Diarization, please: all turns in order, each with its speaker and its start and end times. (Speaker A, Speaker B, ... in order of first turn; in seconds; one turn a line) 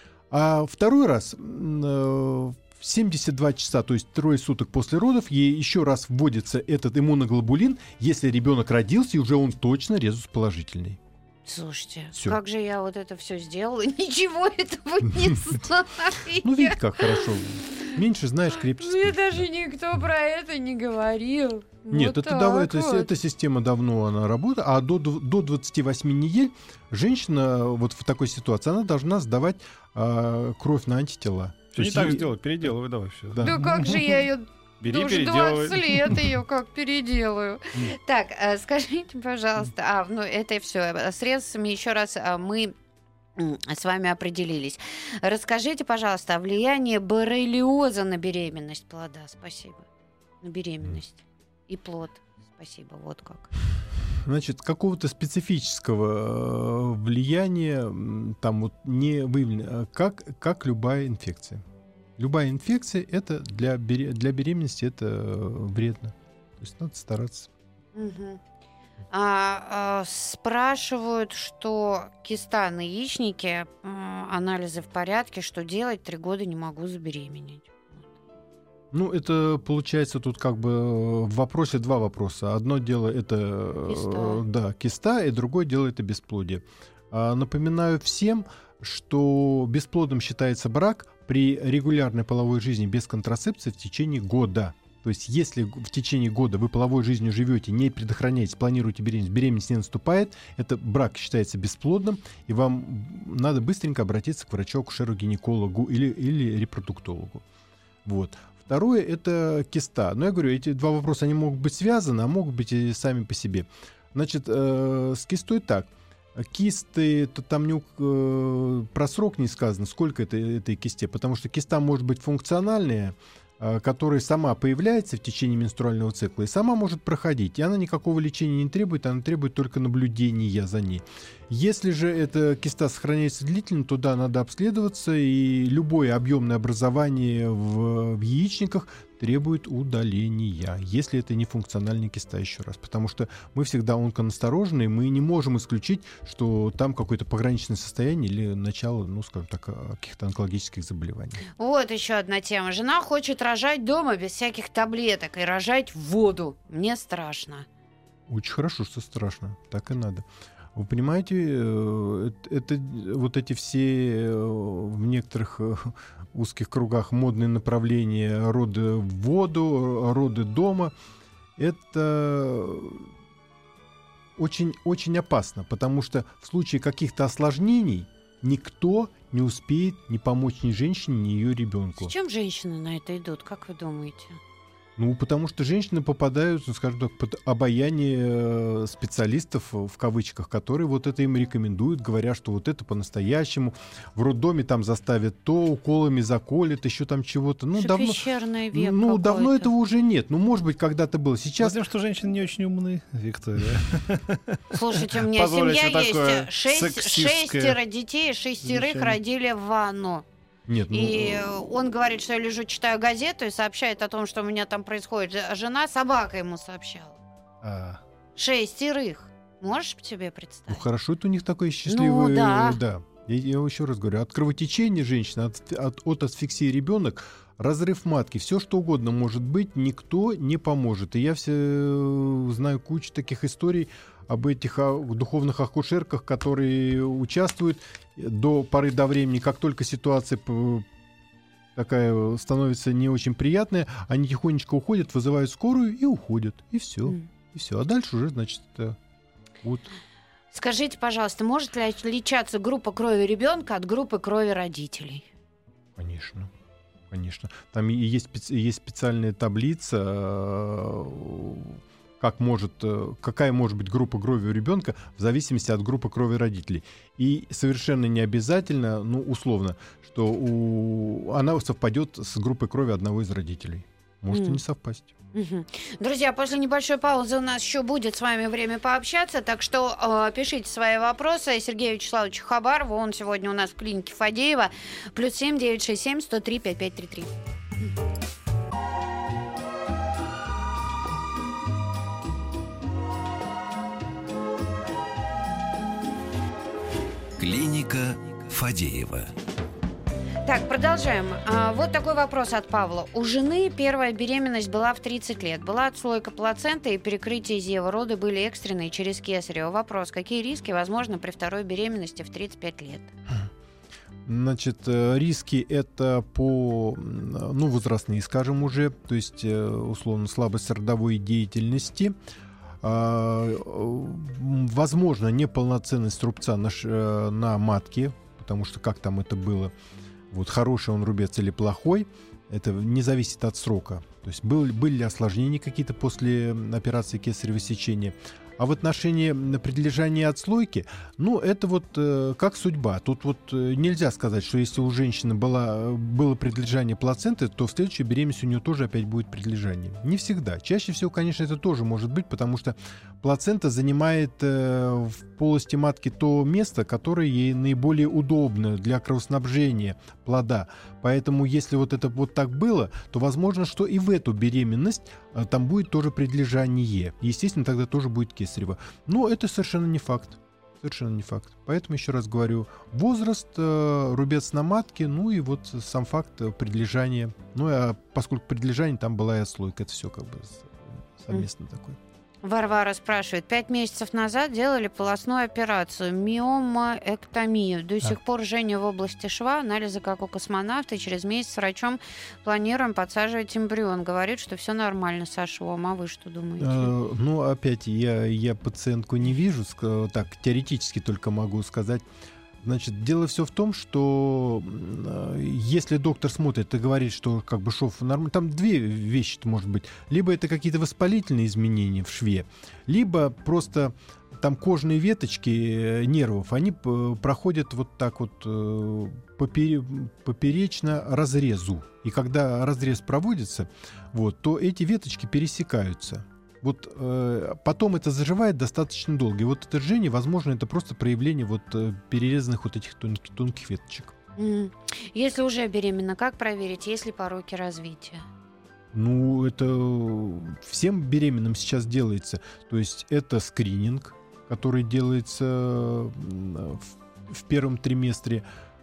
Speaker A: 0.3-11.0
Speaker B: 11.5-17.9
Speaker A: 12.1-12.4
Speaker A: 16.4-19.5
Speaker B: 18.7-23.1
Speaker A: 21.9-32.3
Speaker C: 31.7-34.0
Speaker A: 33.3-34.0
Speaker B: 33.4-42.7
Speaker C: 34.8-36.2
Speaker B: 43.4-49.9
Speaker B: 50.4-53.5
Speaker A: 54.1-61.6
Speaker A: 62.2-67.5
Speaker B: 68.0-68.4
Speaker B: 69.1-78.1
Speaker A: 78.9-107.4
Speaker B: 83.9-84.4
Speaker A: 108.0-151.4
Speaker B: 151.5-157.7
Speaker A: 158.3-170.9
Speaker A: 171.6-173.1
Speaker A: 174.4-182.1
Speaker B: 182.0-184.4
Speaker A: 185.0-201.8
Speaker B: 197.8-199.7
Speaker C: 201.6-207.8
Speaker B: 204.7-210.3
Speaker A: 208.8-209.1
Speaker A: 210.7-211.5
Speaker B: 210.9-217.2
Speaker C: 217.6-218.0
Speaker B: 218.4-220.8
Speaker A: 220.7-240.9
Speaker B: 221.9-222.8
Speaker A: 241.8-249.0
Speaker A: 249.6-249.9
Speaker B: 250.5-255.3
Speaker A: 256.0-256.5
Speaker A: 257.1-275.1
Speaker B: 274.3-274.6
Speaker B: 275.3-287.3
Speaker D: 297.4-299.3
Speaker B: 300.4-313.1
Speaker A: 314.3-322.1
Speaker A: 322.8-329.7
Speaker A: 330.3-382.0
Speaker B: 382.4-396.9
Speaker A: 396.6-402.1
Speaker A: 402.6-434.1
Speaker B: 434.4-438.2
Speaker A: 438.9-448.4